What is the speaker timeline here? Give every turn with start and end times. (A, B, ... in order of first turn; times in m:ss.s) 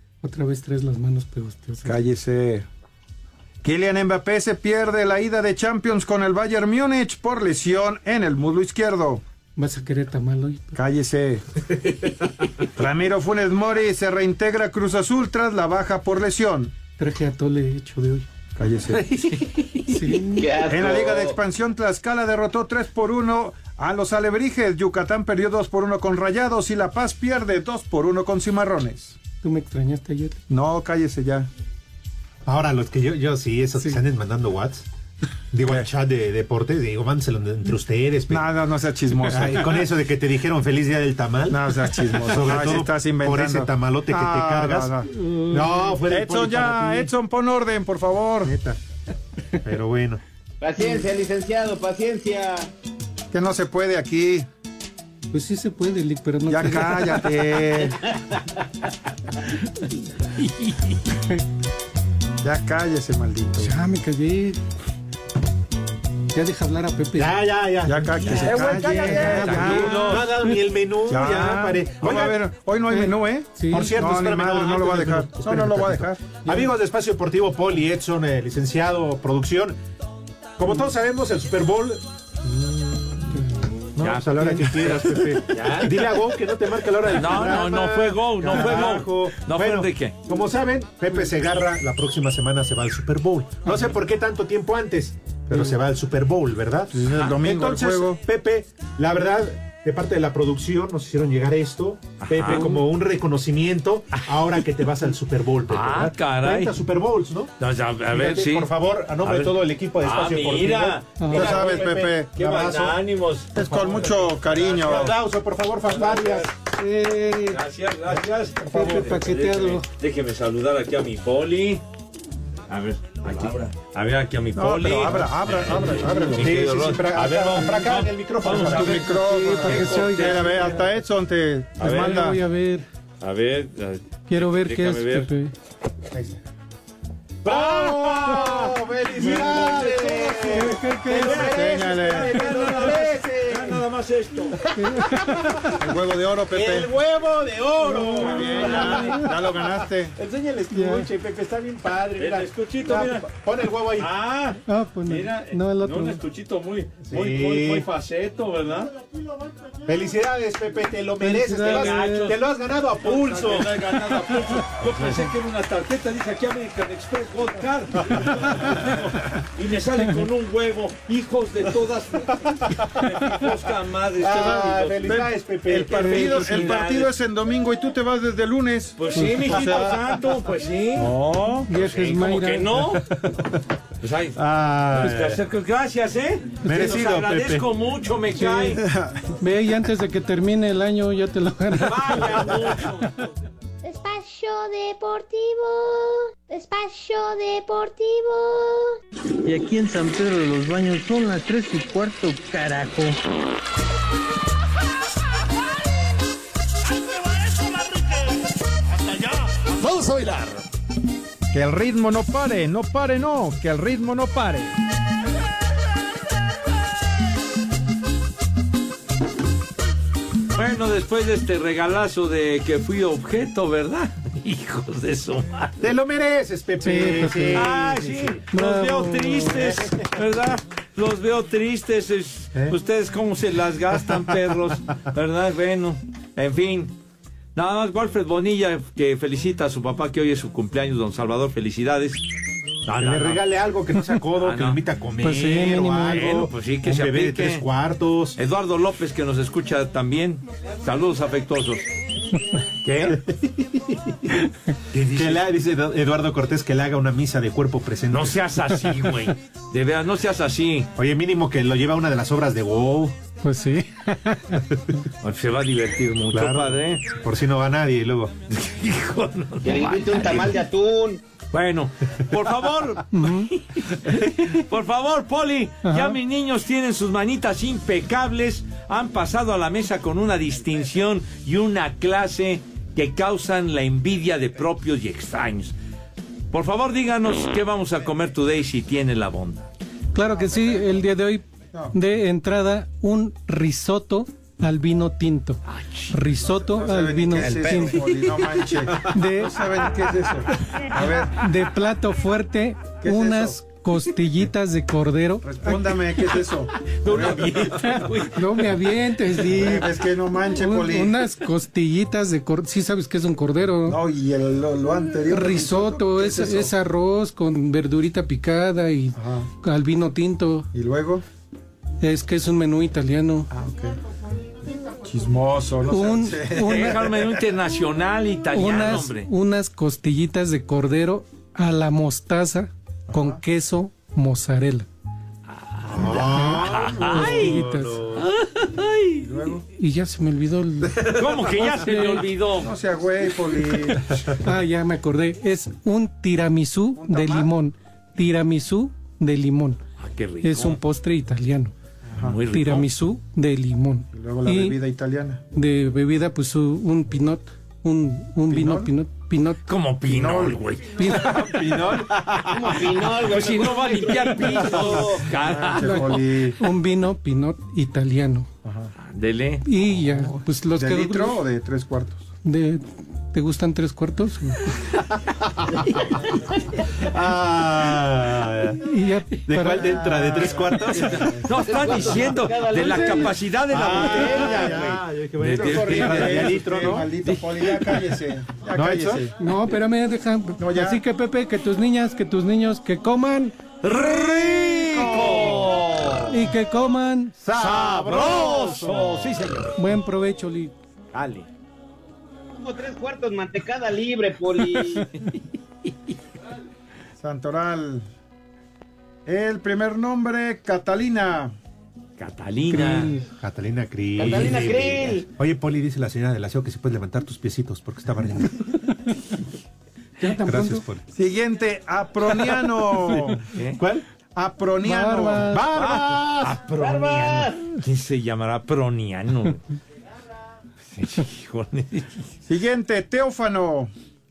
0:00.2-0:02.0 A
0:01.8-0:02.6 B
0:03.6-0:09.2 B
0:09.6-0:10.8 A
0:10.7-0:11.4 B
0:12.8-0:16.7 B
0:17.0-0:18.2 A
0:18.6-0:19.0 B
0:19.9-0:20.5 A
0:20.3-0:21.4 C
0:20.7-0:29.2 B
0:29.4-0:30.4 A
0:30.5-0:31.5 B
0:32.4-0:34.8 D
0:35.5-0:38.5 D
0:38.3-0:39.8 B
0:39.2-0:44.9 D
0:41.5-0:45.1 B
0:45.2-0:45.9 A
0:45.5-0:47.1 D
0:46.0-0:48.6 B
0:48.4-0:48.8 D
0:49.6-0:50.2 D
0:50.6-0:52.7 C
0:53.3-0:54.5 B
0:55.3-0:57.3 A
0:56.5-0:58.0 B
1:02.4-1:03.8 B
1:03.6-1:04.6 A
1:06.3-1:07.4 A
1:07.2-1:12.4 D
1:07.8-1:10.1 B
1:08.4-1:10.5 A
1:09.5-1:10.2 E
1:11.1-1:16.3 B
1:12.9-1:14.1 A
1:13.7-1:19.8 D
1:16.4-1:16.7 A
1:20.6-1:23.4 D
1:24.0-1:47.5 D
1:24.0-1:26.0 E
1:24.3-1:25.0 A
1:27.1-1:30.2 E
1:36.9-1:38.2 B
1:37.1-1:37.7 E
1:42.2-1:42.7 E
1:45.7-1:46.7 E
1:47.6-1:48.7 E
1:48.1-1:53.0 D
1:49.2-1:55.1 E
1:51.2-1:51.5 A
1:51.3-1:52.3 B
1:53.5-1:55.1 B
1:53.8-1:56.5 D
1:55.9-1:56.5 E
1:56.6-1:57.6 A
1:57.5-2:01.8 E
1:58.6-1:59.8 A
2:02.7-2:09.0 E
2:04.6-2:06.4 B
2:06.3-2:09.1 D
2:08.6-2:10.8 A
2:09.0-2:12.4 B
2:09.6-2:10.7 E
2:11.8-2:12.2 E
2:11.8-2:12.8 A
2:13.2-2:15.3 E
2:14.3-2:15.5 A
2:16.1-2:16.4 D
2:17.4-2:20.6 E
2:17.4-2:23.8 D
2:20.4-2:21.6 A
2:21.1-2:24.6 E
2:21.4-2:22.3 B
2:24.7-2:25.7 A
2:25.8-2:26.9 B
2:26.5-2:34.1 D
2:27.9-2:29.3 A
2:27.9-2:28.6 E
2:28.2-2:30.1 B
2:30.7-2:31.1 A
2:32.2-2:33.3 E
2:34.0-2:38.9 E
2:34.7-2:36.2 A
2:37.0-2:37.9 D
2:39.8-2:44.2 D
2:41.2-2:42.3 A
2:41.6-2:42.4 E
2:43.0-2:55.1 E
2:44.8-2:45.2 D
2:54.2-2:56.8 D
2:54.3-2:59.0 B
2:55.9-2:57.1 E
2:56.0-2:56.6 A
2:59.0-3:01.1 E
2:59.1-2:59.5 A
2:59.5-2:59.9 B
2:59.6-2:59.9 D
3:01.0-3:01.7 B
3:01.7-3:02.9 A
3:01.7-3:03.0 E
3:02.9-3:03.5 D
3:04.0-3:04.4 E
3:04.3-3:05.4 D
3:05.0-3:08.8 E
3:06.6-3:07.6 D
3:08.4-3:08.8 A
3:08.8-3:09.1 B
3:09.4-3:12.1 A
3:11.7-3:13.1 E
3:13.8-3:18.9 F
3:19.4-3:23.2 G
3:31.5-3:34.7 B
3:40.5-3:45.8 E
3:45.8-3:48.4 D
3:46.8-3:47.7 A
3:47.5-3:56.9 E
3:48.5-3:49.6 A
3:49.5-3:50.0 D
3:57.5-4:02.2 E
4:02.8-4:03.4 E
4:03.0-4:08.4 D
4:04.4-4:04.8 E
4:05.2-4:06.3 A
4:05.9-4:07.6 E
4:08.4-4:11.9 E
4:12.8-4:13.2 E
4:13.0-4:13.9 D
4:14.9-4:15.5 E
4:15.1-4:18.4 D
4:18.1-4:20.9 E
4:21.0-4:23.1 D
4:23.4-4:24.6 A
4:25.2-4:27.0 E
4:26.3-4:28.3 D
4:28.5-4:30.5 E
4:29.6-4:31.2 C
4:31.5-4:45.7 E
4:33.1-4:33.5 A
4:35.8-4:36.2 A
4:46.5-4:49.6 E
4:50.1-4:55.6 A
4:55.7-4:56.2 E
4:56.1-4:58.0 A
4:56.4-5:01.4 B
4:59.1-4:59.6 A
5:01.3-5:05.8 A
5:03.0-5:03.6 B
5:05.4-5:07.4 B
5:06.9-5:08.6 E
5:07.8-5:09.9 A
5:09.5-5:11.2 B
5:10.4-5:14.0 A
5:13.9-5:16.7 B
5:15.3-5:20.7 A
5:19.1-5:19.5 B
5:20.7-5:21.2 B
5:22.0-5:23.5 A
5:23.5-5:24.0 B
5:24.8-5:26.8 B
5:25.9-5:27.0 A
5:26.6-5:29.3 E
5:28.5-5:34.9 A
5:33.1-5:33.4 B
5:35.5-5:39.2 E
5:35.8-5:38.3 D
5:36.1-5:38.0 A
5:39.2-5:39.6 B
5:39.7-5:42.2 A
5:41.0-5:42.7 E
5:42.6-5:44.0 B
5:44.4-5:49.8 A
5:46.9-5:47.5 B
5:50.0-5:50.8 E
5:50.4-5:51.7 A
5:52.1-5:52.4 B
5:52.2-5:52.9 E
5:52.5-5:54.8 A
5:54.1-5:55.4 B
5:55.5-5:59.6 A
5:58.5-5:58.9 B
5:59.7-6:06.1 E
6:00.1-6:00.6 B
6:01.0-6:01.3 A
6:01.0-6:02.6 D
6:02.5-6:05.2 C
6:05.5-6:06.6 B
6:05.8-6:08.5 A
6:08.6-6:08.9 B
6:09.0-6:09.6 E
6:09.6-6:11.4 A
6:10.1-6:12.2 B
6:12.4-6:14.5 A
6:17.0-6:18.8 D
6:18.8-6:20.7 A
6:19.5-6:22.0 D
6:20.4-6:20.7 B
6:20.9-6:28.0 E
6:21.6-6:23.4 C
6:23.7-6:27.1 D
6:25.6-6:29.3 B
6:28.7-6:29.3 D
6:29.4-6:33.6 A
6:30.6-6:31.0 B
6:33.8-6:36.3 E
6:35.1-6:35.4 D
6:36.3-6:37.4 A
6:37.4-6:39.4 D
6:37.5-6:39.7 E
6:39.8-6:40.7 A
6:41.1-6:41.4 E
6:42.5-6:45.1 C
6:47.2-6:48.0 B
6:49.2-6:51.5 B
6:52.2-6:53.1 E
6:52.7-6:53.2 A
6:53.4-6:58.5 D
6:54.2-6:55.2 C
7:00.2-7:00.8 A
7:00.4-7:01.0 D
7:01.1-7:03.4 B
7:03.5-7:03.8 E
7:03.7-7:04.0 D
7:04.3-7:05.6 B
7:04.8-7:05.6 A
7:05.4-7:06.6 D
7:05.7-7:09.6 E
7:06.8-7:07.6 C
7:10.9-7:12.3 E
7:12.5-7:13.9 B